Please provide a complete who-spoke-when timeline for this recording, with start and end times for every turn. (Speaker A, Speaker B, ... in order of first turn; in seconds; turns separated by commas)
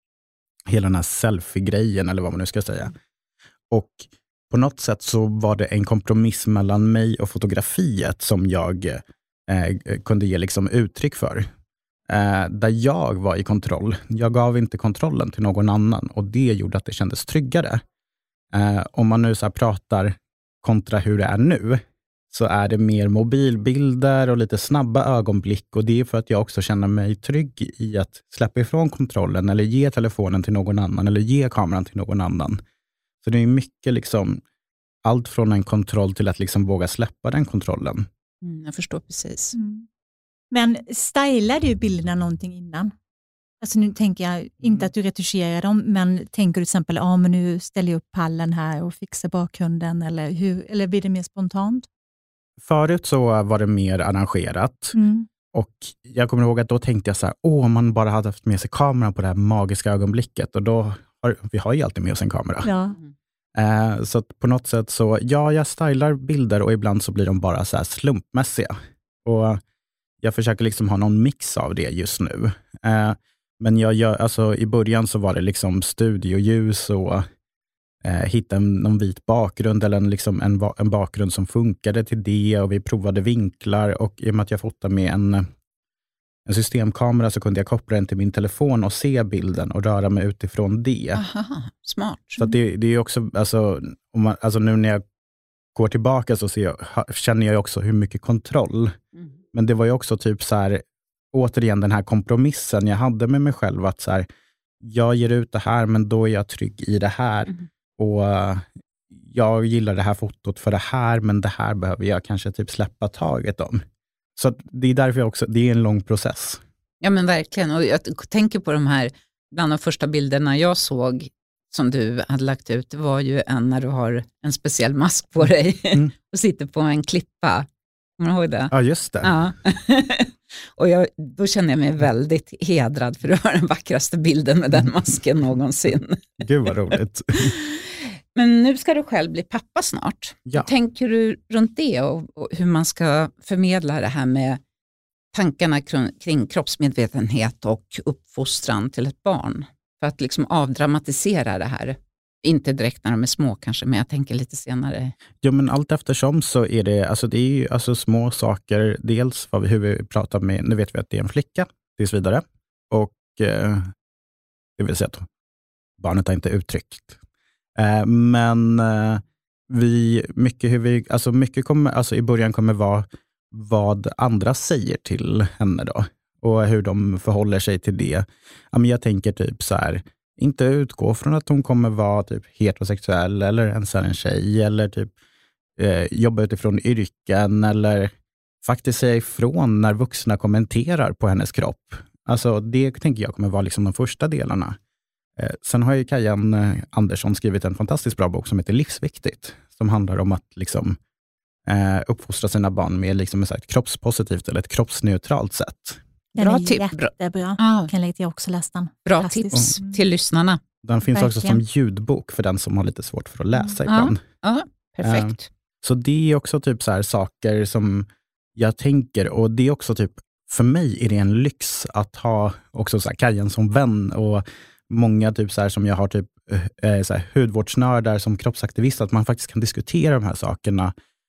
Speaker A: 0.7-3.0, Speaker A: 3.7-11.5, Speaker A: 12.1-17.8, Speaker A: 18.5-32.6, Speaker A: 33.2-34.4, Speaker A: 35.0-38.1, Speaker B: 38.4-39.5, Speaker C: 39.5-39.9, Speaker C: 40.5-42.9, Speaker C: 43.6-51.9, Speaker A: 52.6-55.0, Speaker C: 54.9-55.3, Speaker A: 55.5-62.7, Speaker C: 62.6-63.0, Speaker A: 63.5-68.7, Speaker A: 69.2-69.6, Speaker A: 70.2-77.2, Speaker A: 78.0-85.5, Speaker A: 86.5-91.2, Speaker B: 91.2-92.4, Speaker A: 92.4-95.0, Speaker A: 95.8-99.0, Speaker A: 99.5-104.3, Speaker A: 104.8-113.8, Speaker A: 114.4-116.6, Speaker B: 117.0-127.7, Speaker B: 128.2-128.7, Speaker A: 128.7-129.4, Speaker B: 129.2-136.4, Speaker A: 136.4-137.6, Speaker B: 137.4-144.6, Speaker B: 145.3-155.2, Speaker A: 155.4-163.9, Speaker A: 164.8-165.3, Speaker A: 166.0-167.2, Speaker A: 167.8-185.1, Speaker A: 185.8-188.1, Speaker A: 188.6-194.8, Speaker A: 195.4-201.0, Speaker A: 201.7-206.0, Speaker C: 206.3-210.0, Speaker B: 206.4-207.9, Speaker B: 209.1-210.6, Speaker A: 210.8-214.2, Speaker C: 211.1-211.6, Speaker B: 213.9-215.5, Speaker A: 215.0-230.9